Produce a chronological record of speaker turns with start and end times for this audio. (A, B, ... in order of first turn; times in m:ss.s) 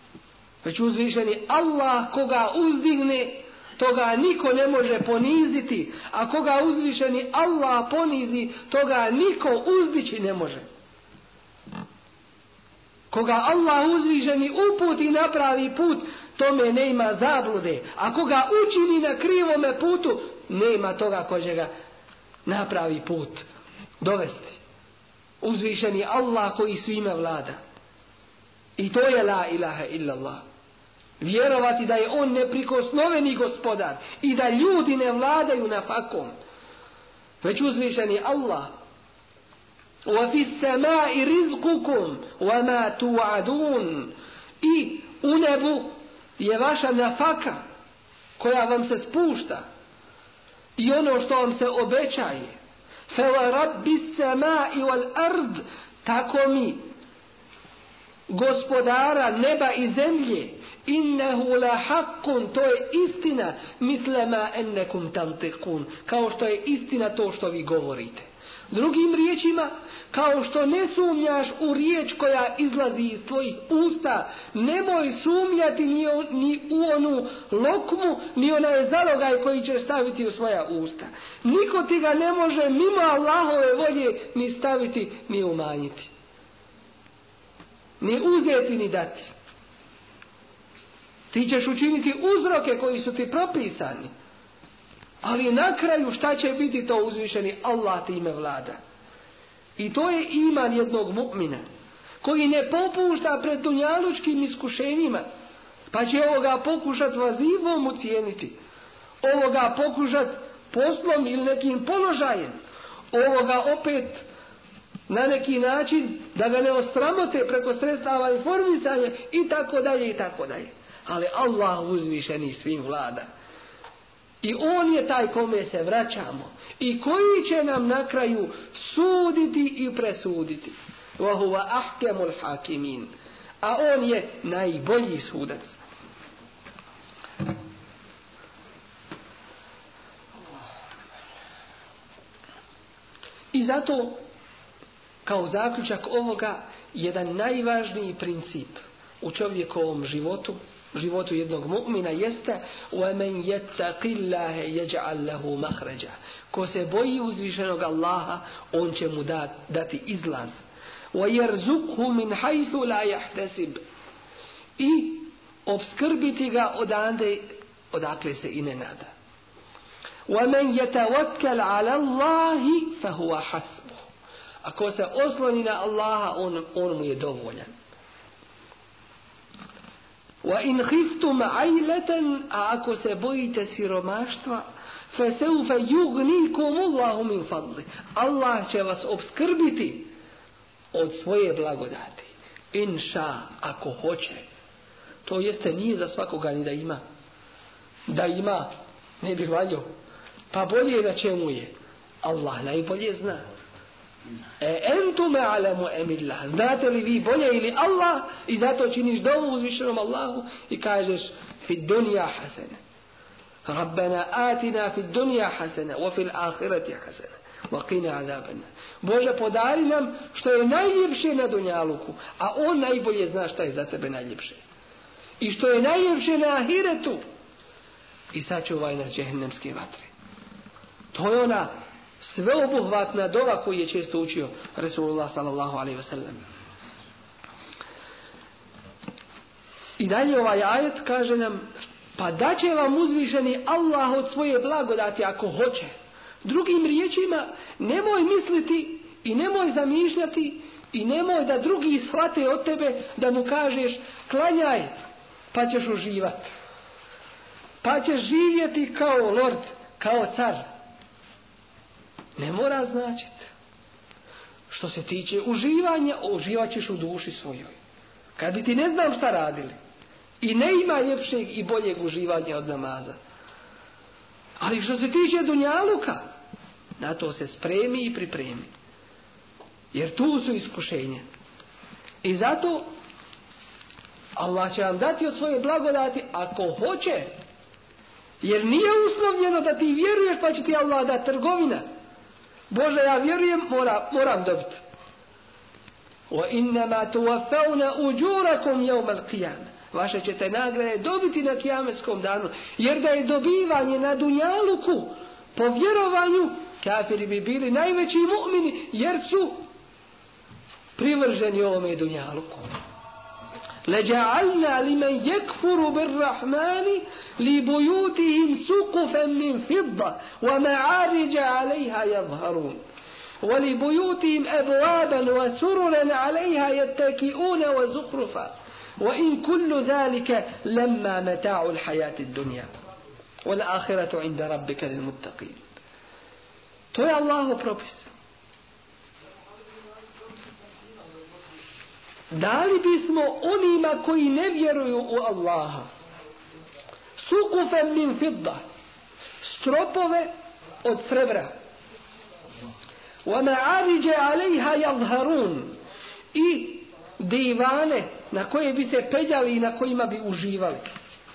0:00.6-0:10.7 A
0:13.1-0:21.7 A
0:22.4-0:23.4 A
0:24.0-0:24.6 A
0:25.4-0:27.6 A
0:28.8-0:30.4 A
0:31.2-0:36.3 A
0:37.4-0:38.7 A
0:40.0-0:47.6 A
0:48.4-0:49.6 A
0:50.8-0:52.5 A
0:53.1-0:56.8 A
0:58.3-1:26.1 A
1:28.0-1:29.3 A
1:31.3-1:34.1 A
1:35.2-1:38.8 A
1:39.8-1:41.6 A
1:42.2-1:45.2 A
1:45.9-1:48.6 A
1:49.2-1:52.6 A
1:53.1-1:54.2 A
1:55.1-2:03.2 A
2:04.4-2:13.1 A
2:13.6-2:15.8 A
2:23.5-2:24.2 A
2:25.2-2:40.6 A
2:41.1-2:43.8 A
2:44.8-2:49.1 A
2:50.3-2:54.0 A
2:54.6-2:57.7 A
3:00.4-3:10.1 A
3:10.9-3:14.4 A
3:15.2-3:17.0 A
3:18.1-3:19.9 A
3:20.5-3:23.4 A
3:24.6-3:32.8 A
3:33.6-3:44.6 A
3:45.4-3:47.2 A
3:48.3-3:50.1 A
3:51.1-3:56.4 A
4:00.0-4:05.9 A
4:06.4-4:14.9 A
4:15.5-4:16.5 A
4:17.8-4:20.6 A
4:22.4-4:23.5 A
4:24.7-4:27.8 A
4:28.4-4:29.7 A
4:30.4-4:33.2 A
4:34.6-4:36.2 A
4:37.0-4:38.7 A
4:39.9-4:41.2 A
4:42.2-4:42.9 A
4:44.4-4:47.3 A
4:48.4-4:51.8 A
4:52.7-4:54.8 A
4:56.3-5:09.6 A
5:11.0-5:12.7 A
5:13.8-5:22.8 A
5:23.4-5:32.7 A
5:33.4-5:35.6 A
5:36.9-5:38.1 A
5:42.3-5:45.9 A
5:47.2-5:48.6 A
5:49.4-5:50.3 A
5:50.8-5:51.5 A
5:53.2-5:55.8 A
5:56.3-6:00.9 A